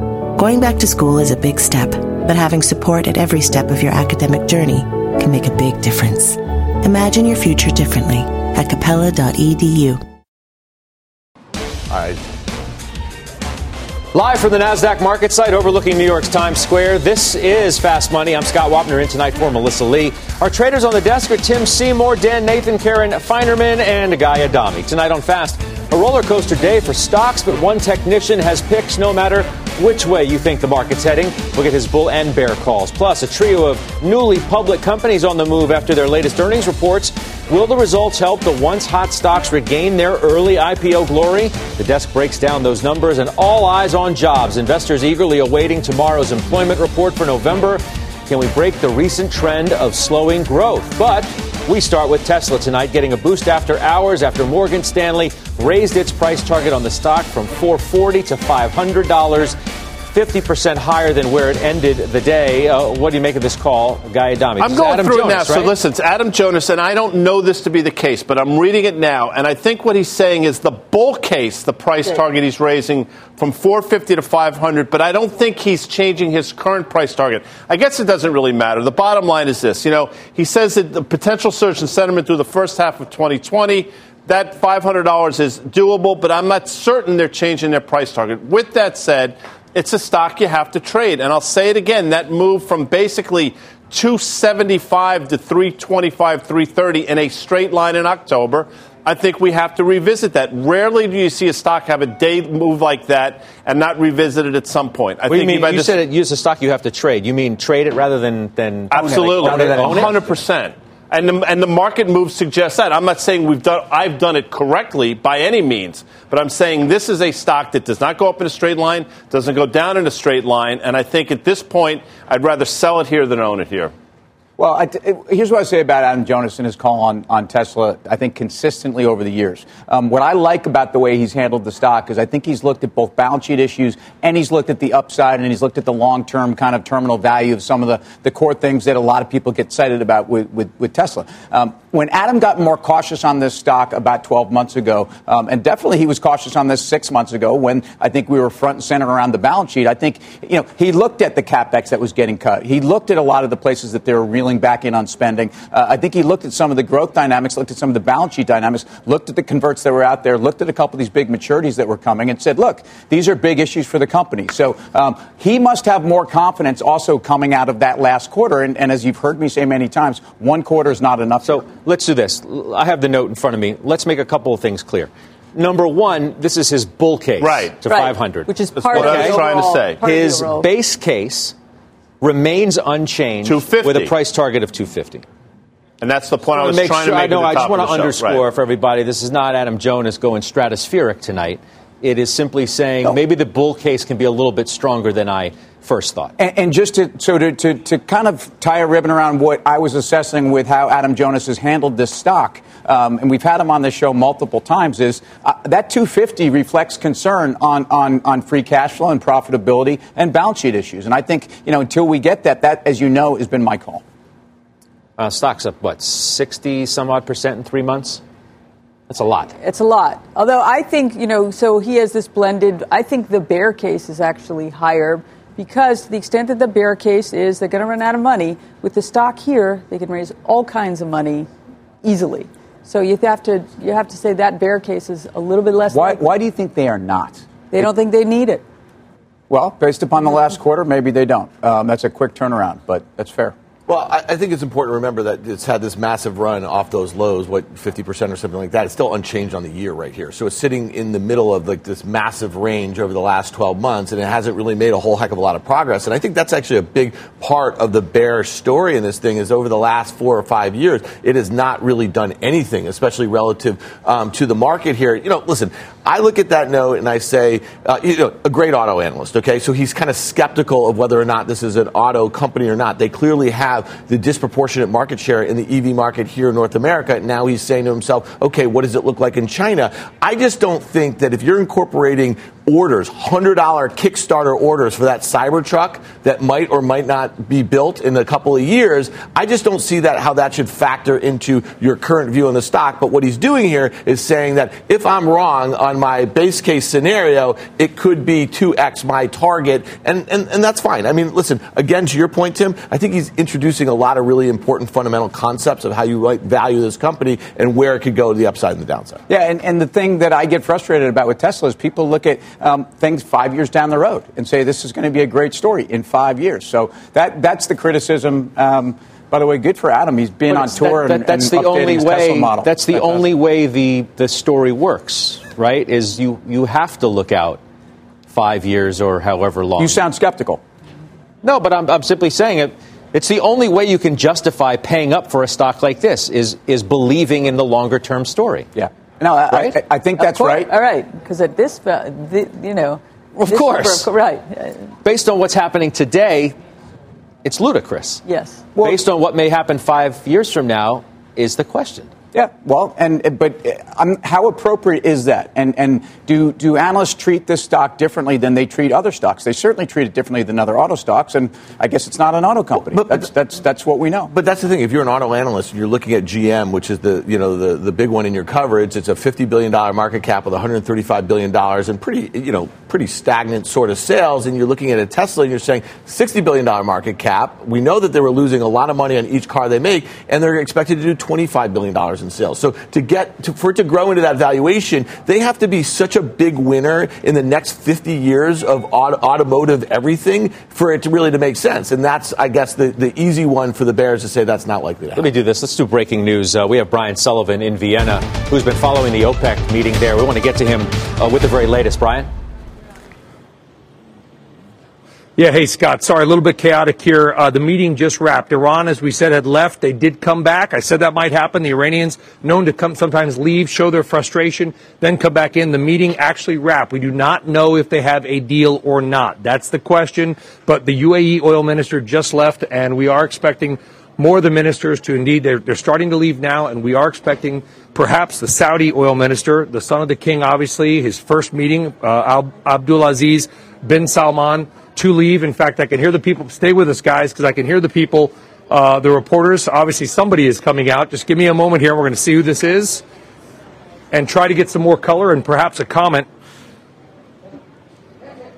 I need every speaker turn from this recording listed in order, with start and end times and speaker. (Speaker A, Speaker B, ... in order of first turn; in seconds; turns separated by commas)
Speaker A: 0.3-10.0, Speaker B: 11.9-12.2, Speaker C: 14.1-59.6, Speaker C: 60.1-65.7, Speaker D: 64.6-106.0, Speaker C: 105.3-110.2, Speaker D: 108.9-123.9, Speaker E: 109.0-110.2, Speaker E: 124.6-171.6, Speaker C: 171.4-181.5, Speaker D: 177.4-177.7, Speaker F: 177.8-180.7, Speaker D: 178.8-180.0, Speaker C: 182.2-185.2, Speaker D: 183.4-184.1, Speaker D: 186.0-188.4, Speaker C: 186.5-196.3, Speaker E: 196.4-214.0, Speaker C: 215.2-218.2, Speaker C: 219.1-219.5, Speaker F: 219.6-231.5, Speaker F: 232.0-236.2, Speaker E: 235.9-237.5, Speaker F: 237.7-238.6, Speaker E: 239.5-243.5, Speaker B: 243.9-309.2, Speaker E: 309.3-323.3, Speaker C: 320.5-327.6, Speaker C: 328.3-330.0, Speaker E: 329.8-330.6, Speaker C: 331.4-338.7, Speaker E: 338.7-340.7, Speaker F: 340.2-344.9, Speaker C: 343.4-344.1, Speaker C: 345.0-346.6, Speaker C: 347.4-348.2, Speaker F: 348.2-348.7, Speaker E: 348.7-349.0, Speaker C: 348.8-352.1, Speaker E: 352.3-364.3, Speaker B: 362.9-363.2, Speaker B: 364.3-395.3, Speaker C: 395.1-402.3, Speaker G: 405.4-443.0, Speaker G: 444.1-446.3